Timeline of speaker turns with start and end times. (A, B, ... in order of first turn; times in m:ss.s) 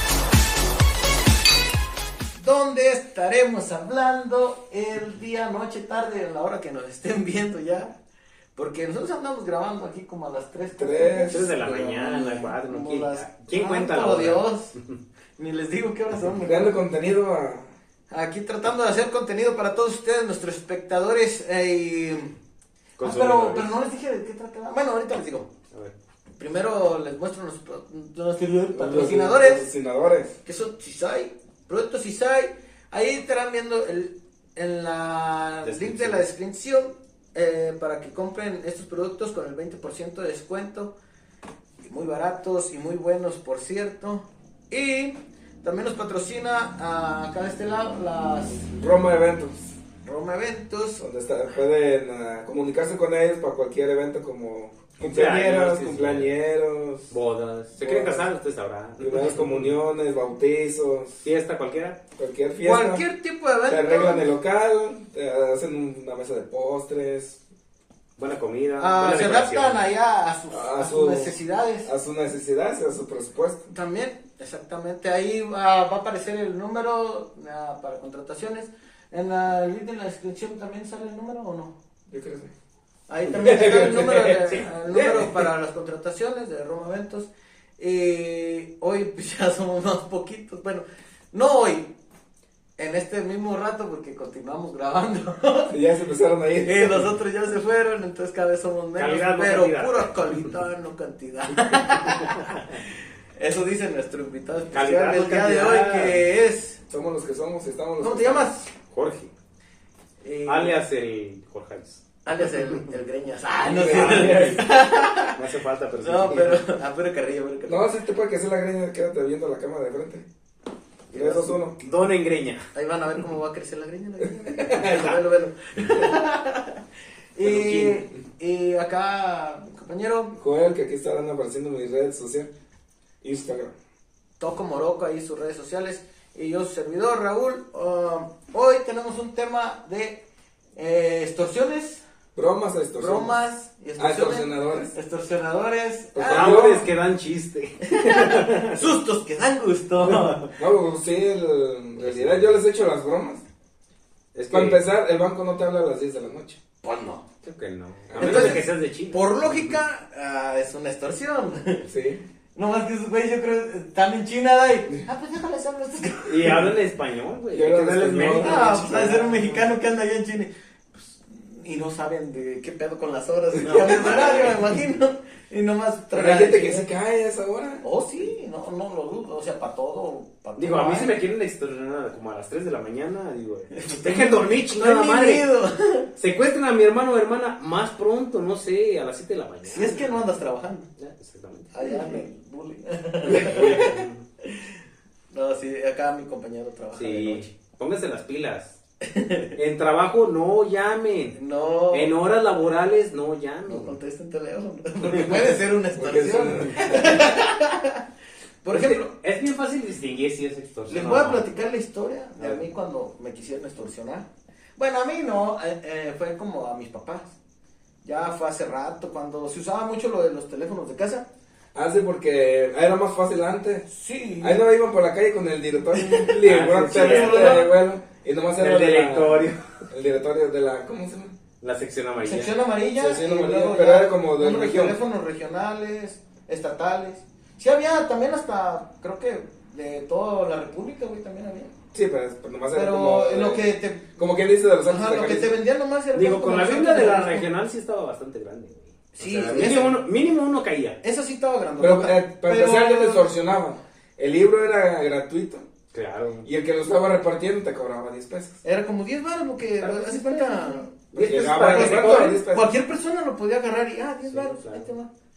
0:02.4-0:08.0 A
0:08.6-0:14.7 A
0:10.8-0:11.5 B
0:11.3-0:15.0 C
0:15.4-0:16.8 A
0:16.4-0:17.7 B
0:18.1-0:22.4 A
0:23.0-0:25.5 A
0:23.0-0:23.8 C
0:26.4-0:29.7 A
0:28.7-0:30.4 B
0:30.4-0:40.9 A
0:35.6-0:36.2 C
0:41.9-0:48.7 A
0:48.8-0:49.8 B
0:50.0-0:51.6 A
0:51.0-0:57.1 B
0:55.0-0:56.3 C
0:57.1-0:59.7 C
0:57.8-0:58.3 B
0:59.0-1:01.2 B
1:01.2-1:02.0 C
1:02.2-1:03.0 B
1:02.6-1:04.3 A
1:03.7-1:07.4 B
1:08.2-1:09.8 C
1:08.8-1:11.9 A
1:10.5-1:13.7 B
1:13.7-1:21.8 A
1:22.1-1:22.5 B
1:23.1-1:31.9 A
1:23.3-1:25.4 B
1:23.5-1:23.8 C
1:24.4-1:25.3 C
1:32.8-1:35.8 A
1:35.7-1:37.1 B
1:36.6-1:42.8 A
1:39.0-1:40.6 C
1:42.2-1:42.7 C
1:43.4-1:46.8 A
1:44.7-1:46.2 C
1:46.9-1:48.5 B
1:48.0-1:48.7 A
1:48.9-1:49.3 C
1:50.2-1:50.8 A
1:50.4-1:52.8 C
1:52.2-1:55.4 A
1:53.7-1:54.6 B
1:53.7-1:54.8 C
1:55.4-1:56.6 C
1:56.0-1:58.0 A
1:57.7-2:00.3 B
2:01.1-2:01.6 A
2:01.1-2:01.8 B
2:01.8-2:02.7 C
2:02.7-2:06.8 A
2:04.2-2:05.1 B
2:07.4-2:10.3 A
2:07.4-2:08.0 C
2:10.3-2:12.5 B
2:13.2-2:13.8 B
2:14.4-2:22.0 A
2:22.4-2:23.4 B
2:23.0-2:26.8 A
2:24.0-2:25.0 B
2:26.2-2:26.9 B
2:26.3-2:29.0 C
2:27.9-2:30.5 A
2:30.0-2:30.5 C
2:30.5-2:33.4 B
2:32.0-2:32.6 C
2:34.3-2:34.8 C
2:34.5-2:36.6 B
2:36.8-2:37.2 A
2:37.4-2:39.8 C
2:38.1-2:38.6 B
2:38.2-2:41.9 A
2:41.8-2:42.2 B
2:42.6-2:46.7 A
2:46.3-2:49.3 C
2:47.5-2:49.6 B
2:48.3-2:56.9 A
2:53.6-2:54.6 C
2:53.7-2:54.5 B
2:56.1-2:57.8 B
2:57.8-3:01.2 A
3:00.6-3:05.5 C
3:03.7-3:06.1 A
3:06.2-3:10.2 C
3:09.7-3:10.9 A
3:11.0-3:12.2 C
3:11.7-3:14.8 A
3:13.2-3:14.2 C
3:13.3-3:13.9 B
3:15.3-3:17.5 A
3:17.0-3:18.8 C
3:19.0-3:19.6 A
3:19.6-3:21.4 C
3:21.4-3:22.1 A
3:21.9-3:24.0 C
3:23.7-3:28.0 A
3:25.1-3:25.5 C
3:26.0-3:27.4 B
3:28.6-3:29.1 A
3:28.7-3:31.5 C
3:30.9-3:34.3 A
3:34.8-3:37.4 A
3:38.0-3:41.3 A
3:41.7-3:43.9 B
3:43.9-3:44.6 A
3:44.4-3:51.4 B
3:46.0-3:46.4 A
3:46.4-3:47.7 C
3:46.9-3:47.7 A
3:48.6-3:49.6 C
3:51.6-3:52.5 C
3:52.2-4:01.8 A
3:53.0-3:55.0 B
4:01.9-4:05.6 B
4:02.7-4:04.2 A
4:04.9-4:07.5 A
4:06.1-4:11.0 C
4:09.1-4:10.0 A
4:11.0-4:13.3 A
4:11.8-4:15.7 B
4:15.9-4:16.5 C
4:16.4-4:18.6 B
4:18.6-4:25.1 A
4:19.8-4:22.4 C
4:21.2-4:22.7 B
4:24.3-4:24.9 C